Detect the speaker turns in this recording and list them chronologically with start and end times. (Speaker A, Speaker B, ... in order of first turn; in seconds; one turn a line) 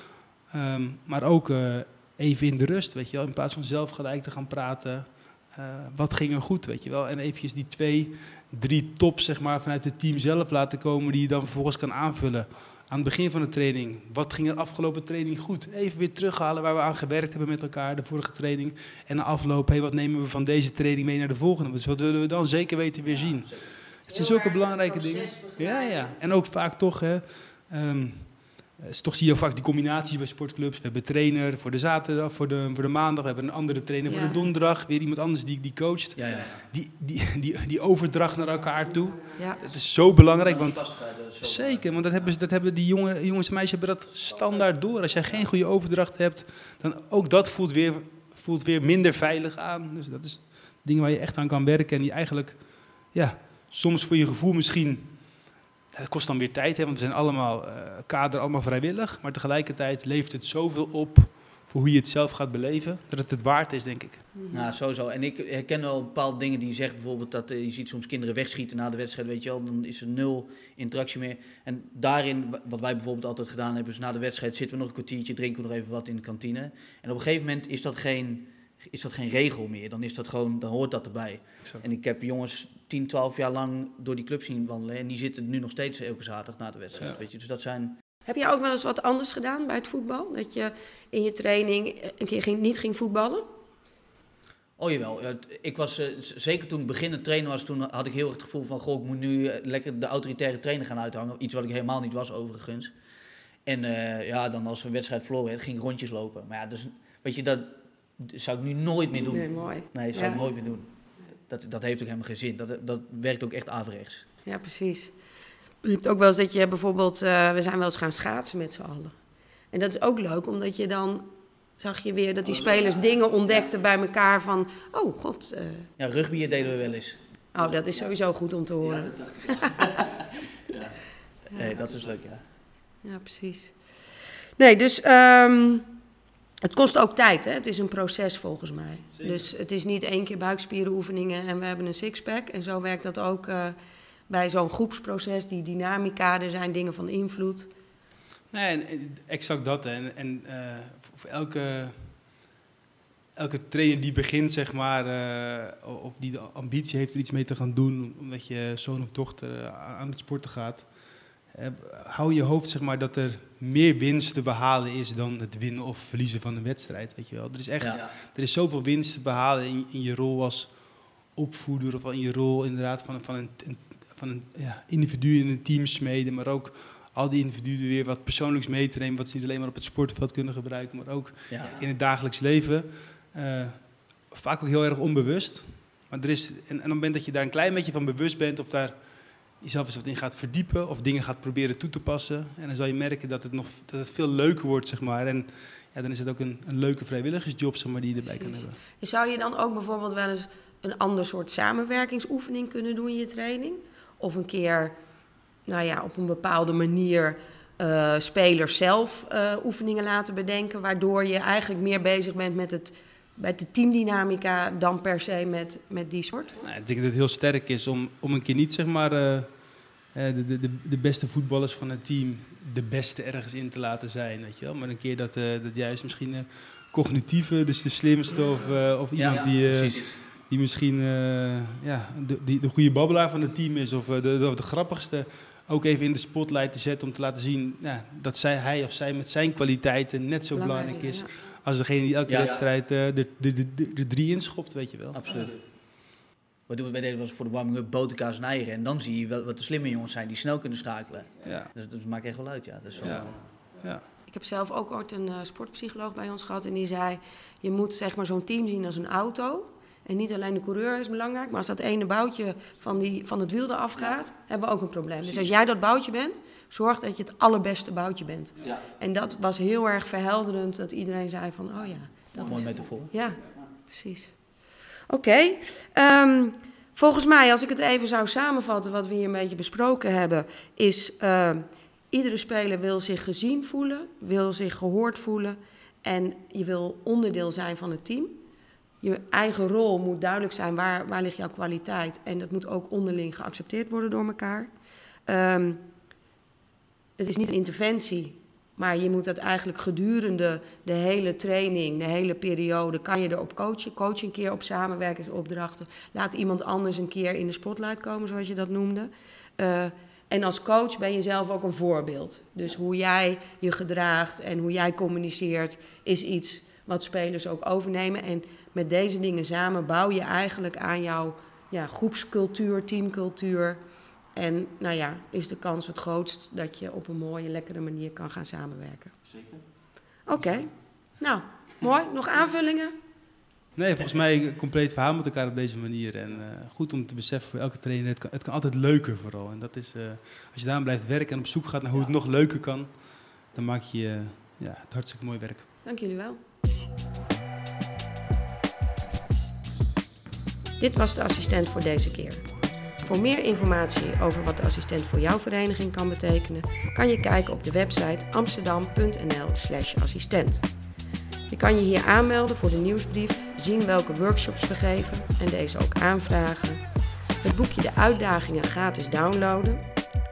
Speaker A: 0.5-55.3
Speaker B: 23.1-23.7
Speaker C: 24.1-26.1
Speaker C: 34.1-34.4
Speaker B: 36.1-36.6
Speaker C: 39.4-39.6
Speaker B: 40.2-42.0
Speaker A: 55.9-64.3
Speaker C: 64.3-64.7
Speaker B: 64.5-88.0
Speaker C: 88.2-93.5
Speaker B: 94.8-102.9
Speaker B: 103.7-110.9
Speaker C: 109.3-110.5
Speaker B: 111.5-114.2
Speaker C: 114.4-115.1
Speaker C: 115.8-119.1
Speaker C: 119.7-125.9
Speaker B: 122.4-123.7
Speaker B: 126.0-128.1
Speaker C: 127.5-130.0
Speaker B: 128.8-130.9
Speaker B: 131.5-132.4
Speaker C: 133.0-133.8
Speaker C: 134.6-135.9
Speaker C: 136.6-143.8
Speaker C: 144.3-147.7
Speaker A: 148.5-152.2
Speaker A: 153.3-160.9
Speaker A: 161.5-170.7
Speaker B: 167.8-168.1
Speaker A: 171.3-189.0
Speaker B: 181.5-181.8
Speaker A: 189.6-198.8
Speaker C: 198.4-204.9
Speaker C: 205.7-216.6
Speaker A: 216.6-219.5
Speaker A: 220.1-245.6
Speaker B: 229.1-230.2
Speaker C: 240.5-241.3
Speaker B: 242.3-242.7
Speaker B: 245.1-245.7
Speaker B: 246.7-253.4
Speaker A: 251.4-251.7
Speaker A: 253.0-254.0
Speaker C: 254.3-274.4
Speaker B: 272.4-273.1
Speaker C: 275.1-288.4
Speaker C: 289.0-294.7
Speaker C: 295.2-295.9
Speaker C: 297.2-323.8
Speaker C: 324.3-329.2
Speaker C: 330.3-332.9
Speaker A: 333.8-345.6
Speaker C: 345.8-346.4
Speaker C: 350.8-352.5
Speaker C: 353.0-360.6
Speaker C: 361.5-366.8
Speaker C: 367.4-369.8